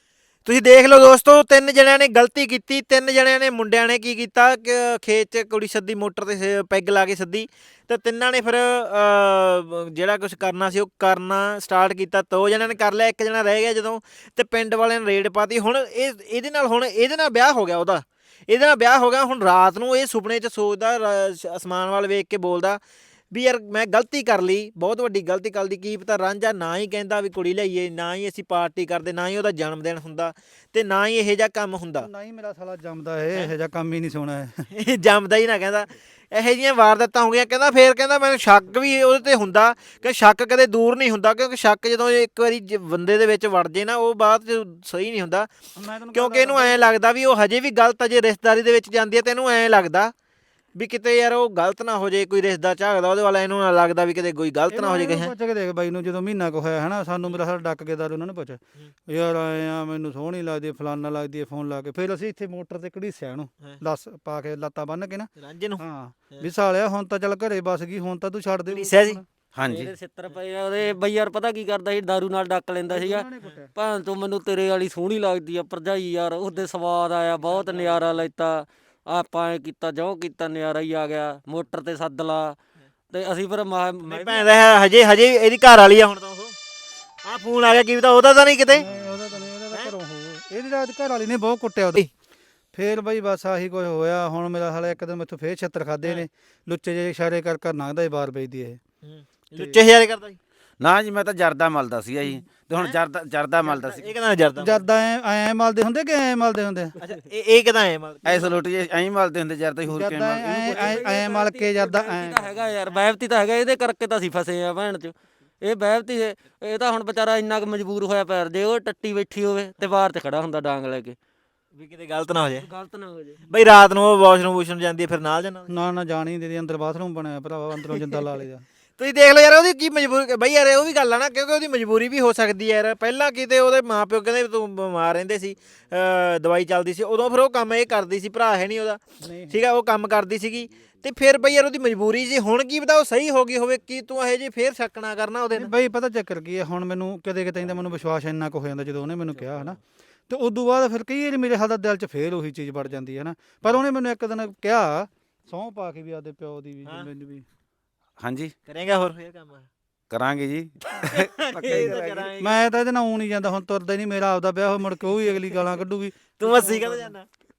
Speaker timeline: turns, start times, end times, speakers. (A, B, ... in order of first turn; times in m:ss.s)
0:00.4-0:22.8 A
0:23.3-0:32.1 A
0:32.0-0:34.6 B
0:34.7-0:45.5 A
0:45.8-0:46.8 B
0:46.1-0:50.1 A
0:50.7-0:55.3 A
0:54.7-1:09.2 B
1:05.4-1:06.5 A
1:08.7-1:09.2 A
1:09.5-1:09.9 C
1:09.6-1:22.6 D
1:12.9-1:13.7 B
1:17.5-1:18.1 A
1:23.1-1:24.5 D
1:24.1-1:26.5 A
1:27.2-1:28.8 A
1:28.7-1:32.0 B
1:32.7-1:38.8 B
1:39.0-1:40.4 A
1:40.8-1:44.1 C
1:42.7-1:43.0 A
1:43.6-1:44.8 A
1:44.6-1:46.9 B
1:47.0-1:48.5 A
1:48.2-1:51.0 C
1:49.9-1:52.5 B
1:50.5-2:01.2 D
2:01.7-2:02.7 A
2:02.6-2:03.5 D
2:03.5-2:05.7 A
2:05.7-2:08.6 B
2:09.0-2:25.7 A
2:19.2-2:19.6 B
2:25.5-2:29.8 B
2:29.3-2:29.8 A
2:30.3-2:37.4 B
2:38.2-2:38.5 C
2:38.7-2:39.7 A
2:40.1-2:41.9 C
2:41.1-2:42.6 A
2:41.6-2:42.2 D
2:41.9-2:47.1 B
2:46.4-2:47.2 A